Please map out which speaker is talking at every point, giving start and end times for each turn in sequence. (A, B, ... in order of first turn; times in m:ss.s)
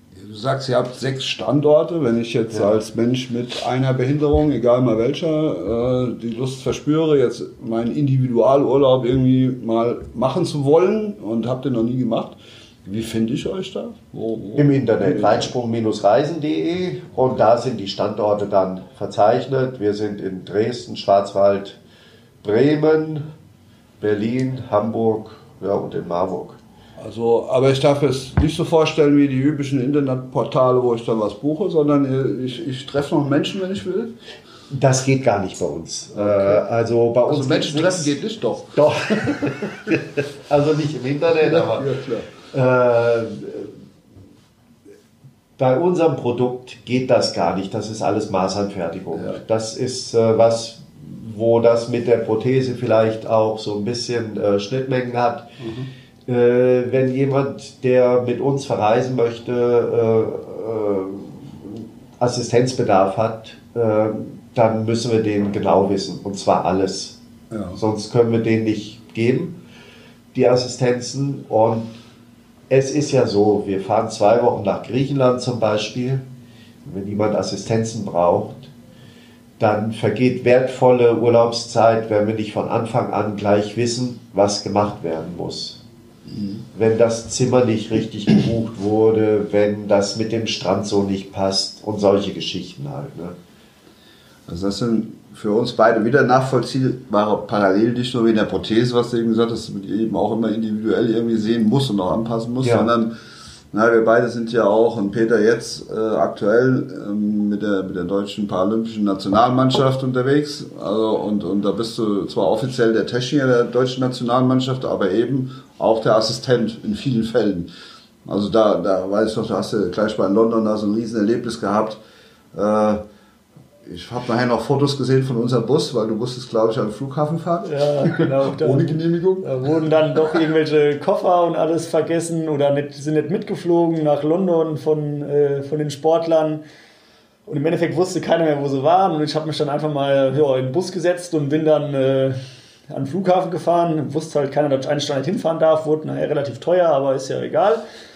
0:00.2-0:15.5 A
0:14.6-0:21.8 B
0:22.4-0:23.3 B
0:24.0-0:26.6 B
0:27.0-0:34.1 A
0:34.7-0:38.2 B
0:36.1-0:36.6 A
0:37.3-0:39.9 A
0:38.7-0:41.9 B
0:41.4-0:42.3 A
0:42.5-0:43.7 B
0:45.6-0:55.5 B
0:49.1-0:49.4 A
0:55.6-0:55.9 A
0:56.3-1:07.2 B
1:07.5-1:07.8 A
1:07.8-1:09.6 B
1:10.3-1:11.9 B
1:12.7-1:16.2 B
1:16.8-1:18.7 B
1:19.6-1:25.8 B
1:26.3-1:26.6 A
1:26.7-1:33.4 B
1:34.5-1:43.1 A
1:42.6-1:42.9 B
1:43.7-1:57.7 A
1:58.2-2:02.0 A
2:02.5-2:03.0 A
2:03.8-2:09.5 A
2:07.6-2:16.6 C
2:17.4-2:22.4 C
2:22.9-2:27.8 C